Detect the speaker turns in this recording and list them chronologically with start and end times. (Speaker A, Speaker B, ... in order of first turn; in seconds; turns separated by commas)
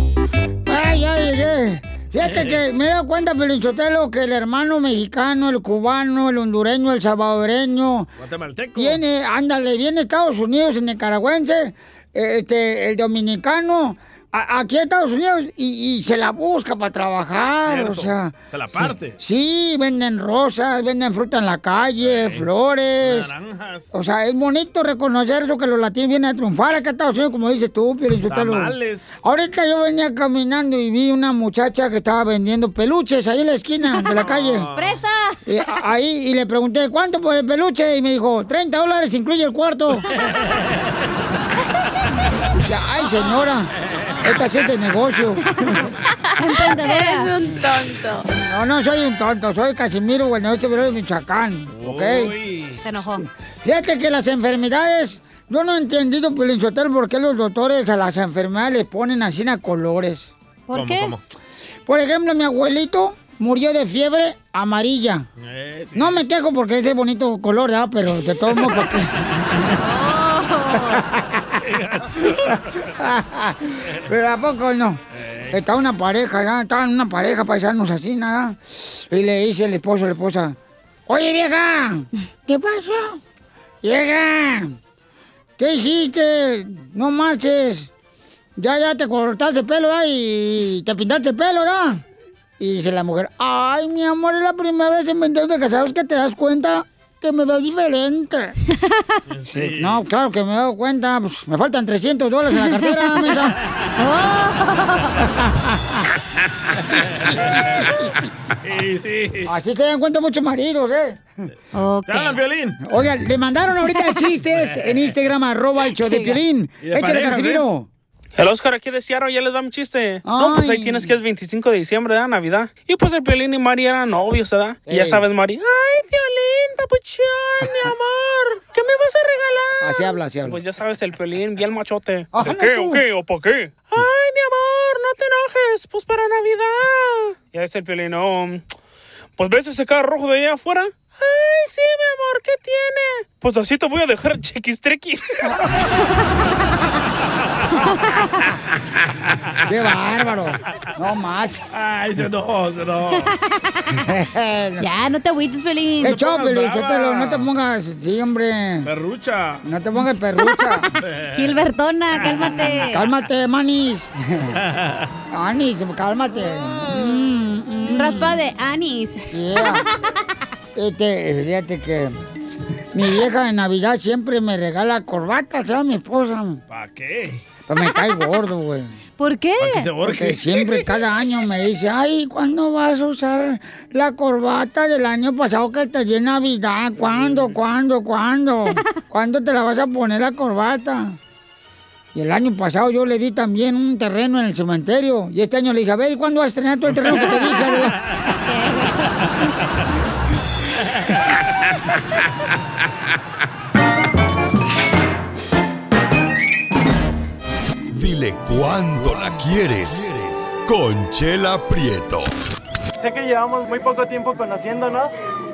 Speaker A: 0.7-8.1, Speaker B: 2.3-2.6, Speaker B: 8.2-9.0, Speaker A: 8.8-23.3, Speaker B: 17.7-19.2, Speaker B: 22.0-22.5, Speaker B: 23.0-23.9, Speaker A: 23.9-34.7, Speaker B: 28.3-29.1, Speaker B: 34.2-35.0, Speaker C: 34.8-35.4, Speaker A: 35.5-40.1, Speaker A: 42.6-45.9, Speaker C: 46.4-47.4, Speaker A: 48.4-52.4, Speaker B: 51.7-52.8, Speaker C: 52.8-53.2, Speaker A: 53.6-60.3, Speaker C: 60.7-61.1, Speaker B: 60.7-61.2, Speaker A: 61.9-65.3, Speaker B: 65.4-66.2, Speaker A: 66.0-69.8, Speaker C: 69.8-71.0, Speaker A: 70.7-71.6, Speaker B: 71.6-72.9, Speaker A: 72.9-80.6, Speaker B: 75.1-75.6, Speaker A: 81.1-83.2, Speaker A: 83.8-84.8, Speaker A: 85.6-87.9, Speaker A: 88.6-92.0, Speaker A: 92.6-98.5, Speaker B: 99.3-100.0, Speaker A: 99.5-103.6, Speaker C: 102.5-103.4, Speaker C: 104.0-105.2, Speaker A: 105.2-106.1, Speaker B: 106.8-108.0, Speaker B: 108.6-109.5, Speaker A: 109.5-111.2, Speaker C: 111.7-112.4, Speaker B: 112.1-112.8, Speaker A: 112.8-117.9, Speaker C: 116.0-116.4, Speaker B: 116.8-117.6, Speaker D: 118.4-138.7, Speaker A: 120.3-121.1, Speaker A: 124.9-125.2, Speaker A: 129.8-130.6, Speaker A: 132.3-133.0, Speaker D: 139.4-145.8, Speaker A: 149.7-151.6, Speaker B: 151.7-153.3, Speaker A: 154.0-154.9, Speaker C: 154.8-156.2, Speaker A: 156.0-158.9, Speaker B: 156.2-157.5, Speaker B: 158.8-159.6, Speaker A: 159.7-160.9, Speaker C: 160.4-160.7, Speaker B: 161.1-161.6, Speaker C: 161.3-163.0, Speaker B: 162.1-162.8, Speaker A: 162.8-164.6, Speaker B: 164.6-165.1, Speaker A: 165.3-168.4, Speaker B: 166.5-167.3, Speaker C: 167.8-170.0, Speaker A: 169.3-169.8, Speaker A: 170.8-172.2, Speaker A: 172.9-176.6, Speaker B: 176.7-177.4, Speaker A: 177.7-179.0, Speaker C: 179.2-179.9, Speaker B: 179.6-180.9, Speaker A: 180.0-191.2, Speaker B: 187.0-187.5, Speaker A: 192.2-198.0, Speaker C: 198.4-199.0, Speaker E: 207.9-212.3, Speaker F: 213.0-215.1